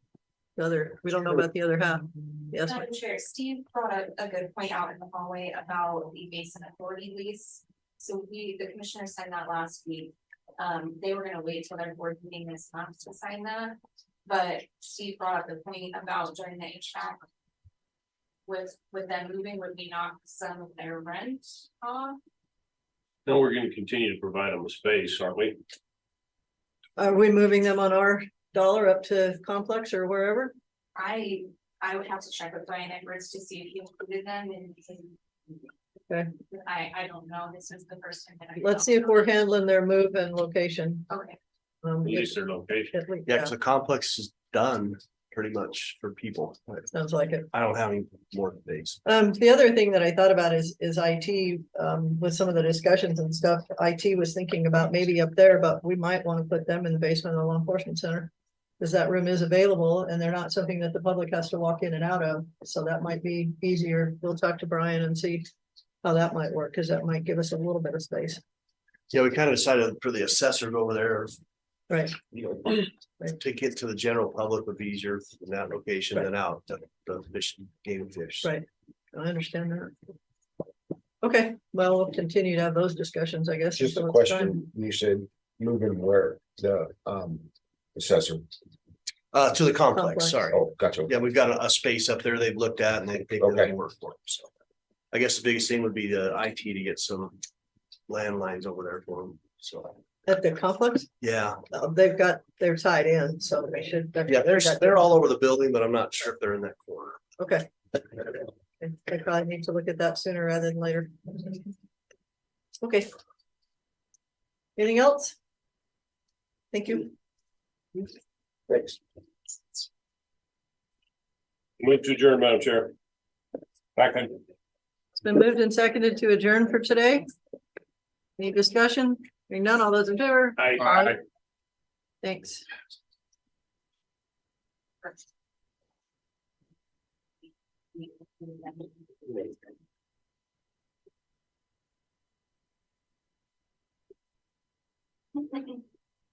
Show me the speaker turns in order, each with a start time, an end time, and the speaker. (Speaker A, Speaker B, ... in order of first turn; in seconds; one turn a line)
Speaker A: 0.6-2.9
Speaker B: 2.7-17.2
Speaker B: 18.4-22.2
Speaker C: 23.2-25.6
Speaker A: 27.0-30.5
Speaker B: 30.9-35.7
Speaker B: 36.5-39.3
Speaker A: 38.6-41.1
Speaker B: 41.1-41.4
Speaker A: 41.8-43.5
Speaker C: 42.0-42.9
Speaker D: 43.2-46.9
Speaker A: 46.9-47.5
Speaker D: 47.5-49.0
Speaker A: 49.0-65.5
Speaker A: 66.0-68.4
Speaker D: 69.1-71.4
Speaker A: 71.9-72.2
Speaker D: 72.3-78.5
Speaker A: 78.4-79.9
Speaker A: 81.2-84.6
Speaker E: 83.8-88.5
Speaker D: 89.3-94.5
Speaker A: 89.9-90.6
Speaker E: 90.5-91.1
Speaker E: 93.4-93.7
Speaker D: 95.1-97.4
Speaker D: 98.1-100.0
Speaker A: 100.2-101.1
Speaker D: 101.2-101.6
Speaker A: 101.7-105.1
Speaker D: 104.3-107.2
Speaker A: 107.4-107.7
Speaker A: 108.8-111.7
Speaker A: 112.8-113.1
Speaker A: 114.8-115.4
Speaker A: 116.7-117.1
Speaker C: 121.8-122.9
Speaker C: 124.0-124.4
Speaker A: 125.2-127.3
Speaker A: 128.4-131.1
Speaker C: 130.6-131.2
Speaker A: 132.2-132.6
Speaker B: 137.9-139.5